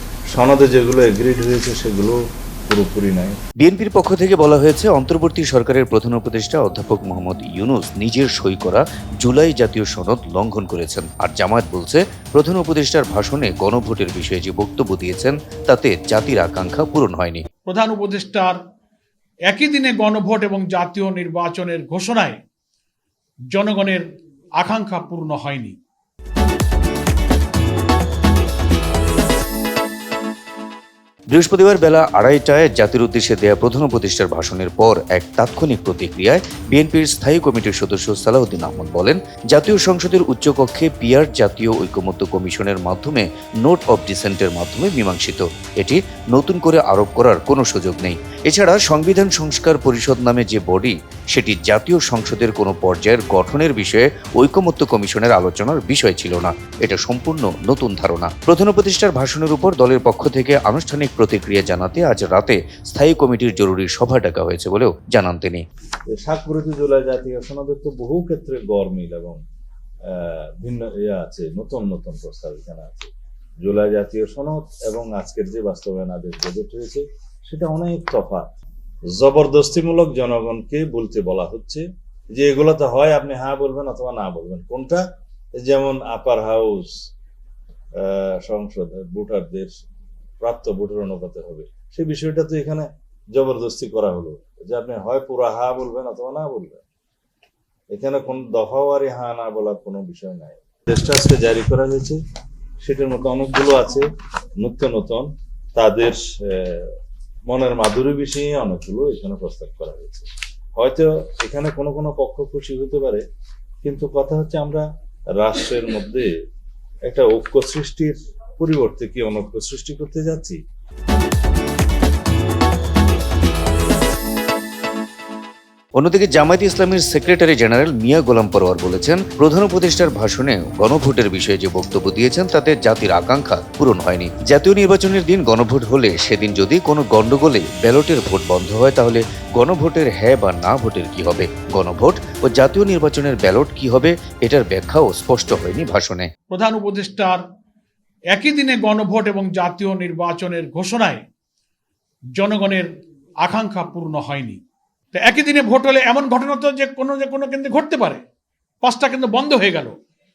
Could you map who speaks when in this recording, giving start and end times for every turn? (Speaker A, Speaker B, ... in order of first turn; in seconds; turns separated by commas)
Speaker A: 0.3-3.3, Speaker B: 3.6-17.4, Speaker C: 17.7-18.6, Speaker C: 19.5-22.4, Speaker C: 23.5-24.1, Speaker C: 24.6-25.8, Speaker B: 31.3-65.6, Speaker A: 66.1-69.4, Speaker A: 70.1-73.1, Speaker A: 73.6-78.5, Speaker A: 79.1-85.0, Speaker A: 85.5-86.9, Speaker A: 88.0-89.7, Speaker A: 90.4-96.8, Speaker A: 97.9-102.2, Speaker A: 102.8-104.1, Speaker A: 104.6-106.9, Speaker A: 107.5-113.2, Speaker A: 113.8-116.3, Speaker A: 117.1-120.6, Speaker B: 126.0-146.3, Speaker C: 146.5-147.4, Speaker C: 148.3-151.2, Speaker C: 152.3-152.9, Speaker C: 153.4-154.6, Speaker C: 155.1-158.2, Speaker C: 158.8-159.9